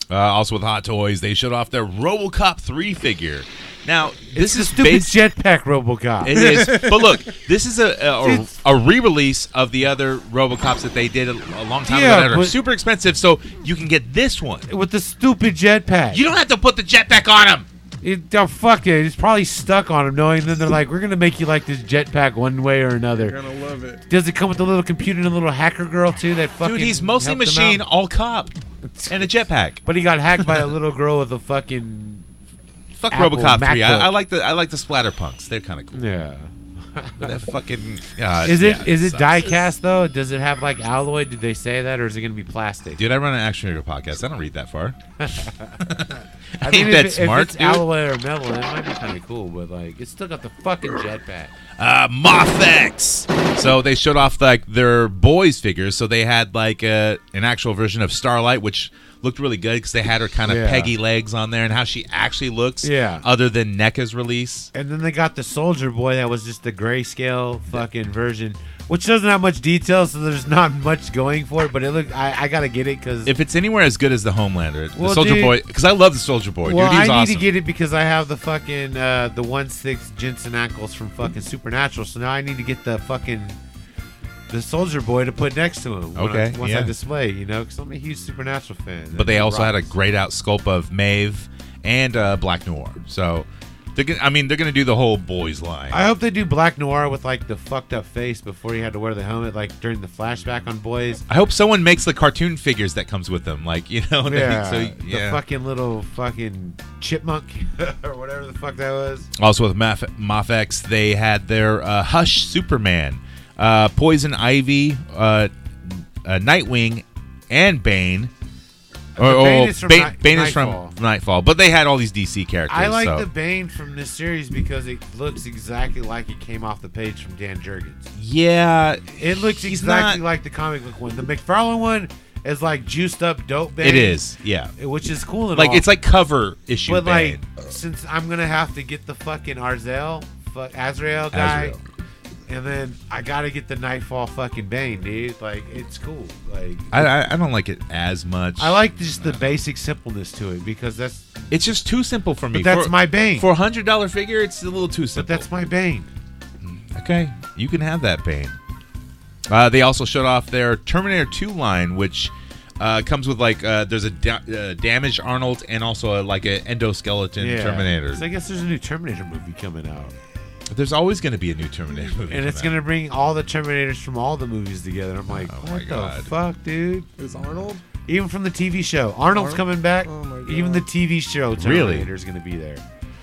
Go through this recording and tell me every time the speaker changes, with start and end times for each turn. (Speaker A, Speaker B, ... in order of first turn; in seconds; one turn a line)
Speaker A: 0.1-5.2
Speaker B: 4.3-6.7
Speaker A: 6.2-14.7
Speaker C: 6.3-7.2
Speaker B: 8.2-8.5
Speaker B: 11.8-12.6
Speaker B: 14.7-16.2
Speaker A: 16.1-17.7
Speaker B: 18.0-23.4
Speaker C: 23.1-24.0
Speaker B: 24.1-27.8
Speaker A: 26.6-28.5
Speaker B: 28.9-29.3
Speaker A: 29.1-29.8
Speaker B: 29.8-32.3
Speaker A: 33.0-36.0
Speaker B: 33.1-34.1
Speaker B: 35.9-37.4
Speaker A: 37.2-39.6
Speaker B: 38.4-43.0
Speaker A: 43.0-45.0
Speaker B: 45.2-45.8
Speaker A: 45.8-47.9
Speaker B: 46.6-51.5
Speaker A: 51.8-64.7
Speaker B: 60.4-60.9
Speaker B: 62.8-63.3
Speaker B: 64.7-73.3
Speaker A: 73.2-77.5
Speaker B: 75.0-75.6
Speaker B: 76.6-83.6
Speaker B: 84.5-89.9
Speaker A: 86.2-86.9
Speaker A: 89.1-96.0
Speaker B: 95.9-101.2
Speaker A: 101.3-105.4
Speaker B: 104.2-109.3
Speaker A: 109.3-118.3
Speaker B: 119.2-120.9
Speaker A: 119.2-123.3
Speaker B: 122.7-128.1
Speaker A: 128.2-130.2
Speaker B: 129.2-134.2
Speaker A: 133.8-134.7
Speaker B: 134.8-135.9
Speaker A: 135.5-137.5
Speaker B: 136.9-141.8
Speaker A: 141.3-141.8
Speaker B: 142.5-147.1
Speaker A: 146.9-149.5
Speaker B: 148.6-151.3
Speaker A: 151.5-155.4
Speaker B: 152.5-153.5
Speaker B: 155.1-156.1
Speaker A: 156.6-158.6
Speaker A: 159.5-168.2
Speaker B: 167.4-170.1
Speaker A: 170.7-172.8
Speaker B: 172.2-177.1
Speaker A: 175.3-176.3
Speaker C: 177.2-177.8
Speaker B: 178.0-182.8
Speaker C: 179.3-180.9
Speaker A: 181.6-182.1